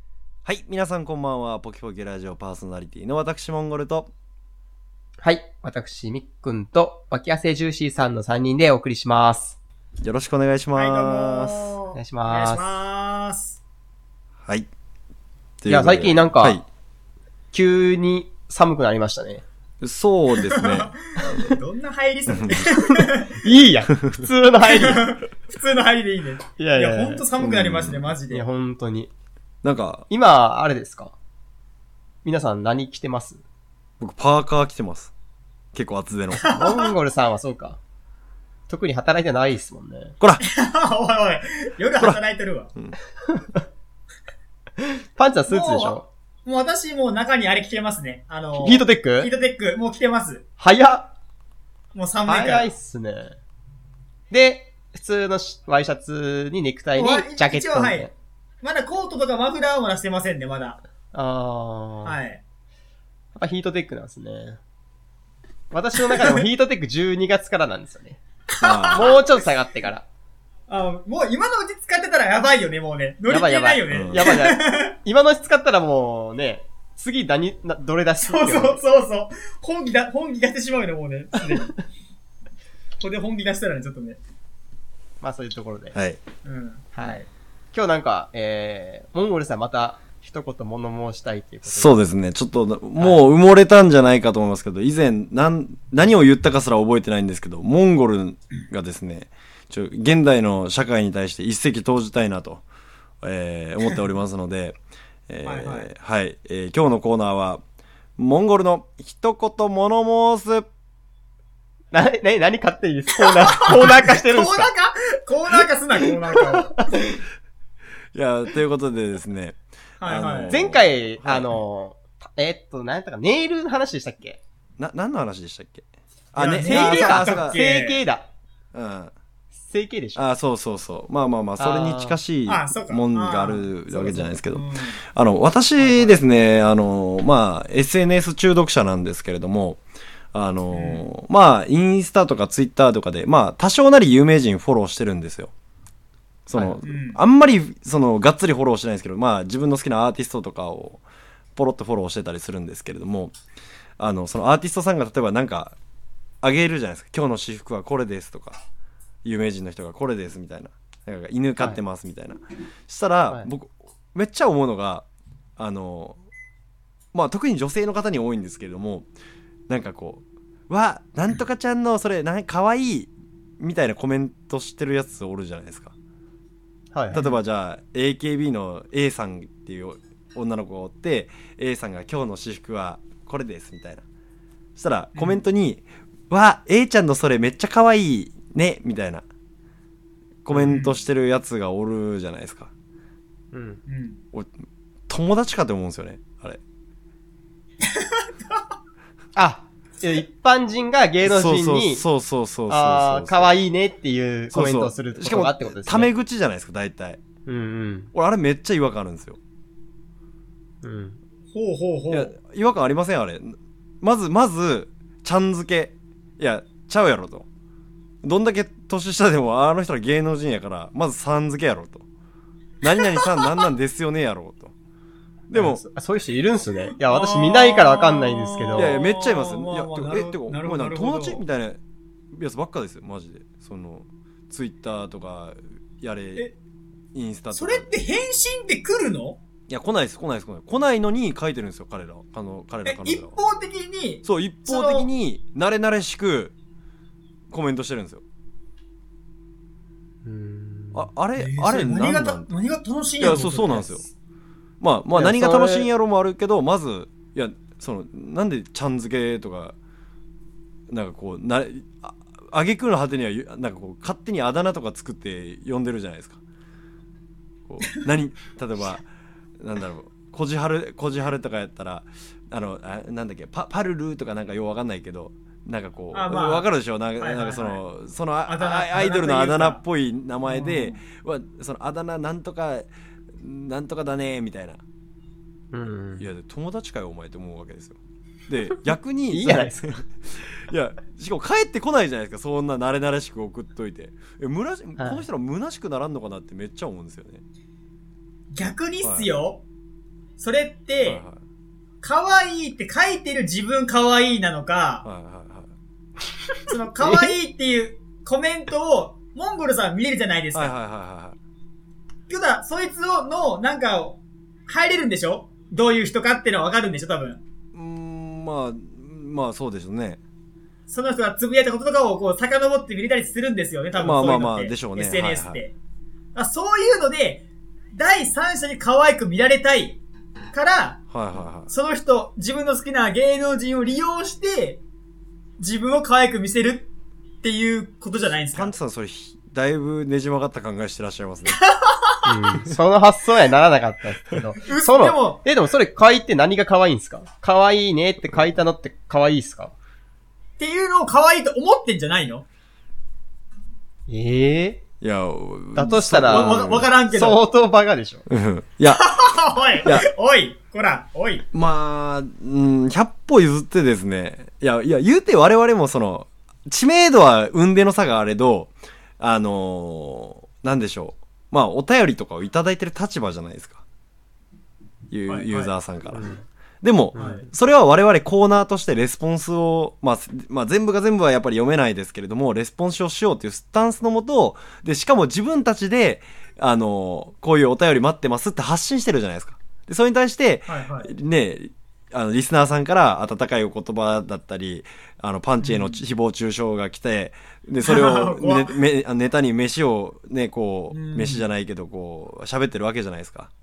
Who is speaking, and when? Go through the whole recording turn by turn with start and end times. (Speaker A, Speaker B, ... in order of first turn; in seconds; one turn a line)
Speaker A: 0.5-4.1
Speaker B: 5.2-9.6
Speaker A: 10.0-11.8
Speaker C: 10.8-13.6
Speaker B: 11.9-12.7
Speaker A: 15.6-16.6
Speaker B: 15.7-16.6
Speaker B: 17.5-19.4
Speaker A: 19.8-21.0
Speaker C: 20.5-23.4
Speaker A: 22.3-22.6
Speaker B: 23.3-25.1
Speaker C: 24.6-28.4
Speaker B: 26.6-27.2
Speaker A: 27.4-28.0
Speaker B: 28.3-29.1
Speaker A: 29.6-30.1
Speaker B: 30.1-31.1
Speaker B: 32.2-33.4
Speaker A: 34.0-35.1
Speaker A: 35.7-36.6
Speaker C: 36.4-36.9
Speaker B: 36.4-37.8
Speaker B: 38.7-40.1
Speaker C: 40.4-42.7
Speaker B: 43.3-43.6
Speaker B: 44.8-46.1
Speaker C: 45.5-50.5
Speaker B: 48.6-49.3
Speaker B: 50.6-51.1
Speaker C: 52.0-52.7
Speaker B: 52.3-53.4
Speaker B: 54.3-58.1
Speaker C: 57.0-58.1
Speaker C: 58.6-60.8
Speaker B: 61.1-62.2
Speaker C: 62.0-62.4
Speaker B: 63.4-64.6
Speaker B: 65.7-68.2
Speaker C: 66.2-66.4
Speaker C: 68.5-69.2
Speaker A: 68.6-69.2
Speaker B: 68.9-70.1
Speaker C: 70.7-74.9
Speaker B: 73.3-78.8
Speaker A: 73.9-74.2
Speaker C: 78.2-81.8
Speaker C: 83.0-84.2
Speaker B: 85.2-86.0
Speaker A: 86.0-86.2
Speaker C: 86.4-87.3
Speaker B: 87.0-92.0
Speaker A: 91.7-102.6
Speaker A: 103.2-104.8
Speaker A: 105.3-107.6
Speaker C: 105.5-105.9
Speaker A: 108.2-110.7
Speaker B: 111.9-114.7
Speaker C: 113.2-117.0
Speaker B: 116.0-117.2
Speaker A: 118.1-121.6
Speaker C: 120.0-120.6
Speaker B: 120.5-124.4
Speaker A: 124.8-127.6
Speaker C: 126.4-128.0
Speaker B: 126.6-128.3
Speaker A: 128.7-129.1
Speaker B: 129.7-130.2
Speaker A: 130.2-145.5
Speaker B: 131.6-132.2
Speaker C: 132.5-133.7
Speaker B: 133.9-134.3
Speaker C: 134.5-135.0
Speaker C: 135.8-136.2
Speaker C: 140.7-141.1
Speaker A: 146.5-151.0
Speaker C: 146.8-147.2
Speaker A: 151.6-153.3
Speaker A: 154.0-155.8
Speaker A: 156.4-158.6
Speaker A: 159.2-165.1
Speaker A: 165.6-166.2
Speaker A: 167.1-169.1
Speaker A: 169.7-175.9
Speaker B: 176.9-177.2
Speaker A: 177.1-184.0
Speaker A: 184.8-189.2
Speaker C: 185.2-185.4
Speaker A: 190.4-192.7
Speaker C: 190.5-190.9
Speaker B: 193.5-193.8
Speaker C: 193.9-194.2
Speaker A: 195.1-196.6
Speaker C: 197.8-198.6
Speaker B: 199.4-202.1
Speaker A: 201.2-203.6
Speaker B: 202.7-206.1
Speaker A: 204.5-207.2
Speaker B: 207.5-208.1
Speaker A: 208.1-209.4
Speaker B: 210.8-211.2
Speaker C: 211.5-212.3
Speaker A: 212.1-217.5
Speaker A: 218.2-222.1
Speaker A: 222.8-224.7
Speaker A: 225.5-225.8
Speaker B: 225.5-229.0
Speaker C: 227.0-231.4
Speaker A: 228.8-231.8
Speaker A: 232.3-236.5
Speaker A: 237.1-237.9
Speaker C: 237.5-239.4
Speaker A: 239.7-243.4
Speaker C: 242.8-245.1
Speaker A: 244.2-246.6
Speaker A: 247.5-248.2
Speaker B: 250.2-251.1
Speaker A: 250.9-252.5
Speaker C: 251.4-254.0
Speaker A: 253.2-254.0
Speaker A: 254.8-259.8
Speaker B: 255.1-255.9
Speaker A: 260.9-266.4
Speaker A: 267.7-269.1
Speaker A: 269.6-284.8
Speaker C: 276.1-277.8
Speaker C: 278.5-279.8
Speaker C: 280.4-281.0
Speaker B: 285.7-286.3
Speaker A: 286.2-297.4
Speaker B: 289.3-289.9
Speaker B: 295.0-295.2
Speaker C: 298.5-299.6
Speaker A: 299.0-299.3
Speaker C: 300.4-301.2
Speaker A: 301.0-301.4
Speaker C: 302.0-305.1
Speaker A: 305.0-305.7
Speaker C: 306.7-310.7
Speaker A: 310.5-311.4
Speaker C: 312.3-317.4
Speaker A: 317.7-320.2
Speaker C: 320.9-325.7
Speaker A: 323.9-325.6
Speaker C: 326.4-330.0
Speaker C: 330.5-331.0
Speaker A: 331.1-331.7
Speaker C: 331.7-334.8
Speaker C: 335.6-336.9
Speaker C: 337.4-338.8
Speaker A: 338.5-341.6
Speaker C: 341.5-342.2
Speaker B: 342.2-349.7
Speaker C: 344.6-345.4
Speaker C: 350.6-352.5
Speaker B: 354.1-354.8
Speaker A: 355.0-356.9
Speaker B: 355.8-358.2
Speaker C: 356.2-357.4
Speaker A: 358.3-359.1
Speaker C: 358.9-361.5
Speaker A: 359.8-360.1
Speaker A: 361.5-373.8
Speaker A: 375.1-376.3
Speaker C: 375.3-375.7
Speaker B: 376.1-376.4
Speaker A: 376.8-403.5
Speaker B: 377.1-377.4
Speaker C: 377.1-377.5
Speaker C: 390.7-391.1
Speaker C: 395.6-396.0
Speaker C: 397.8-398.8
Speaker C: 400.9-401.5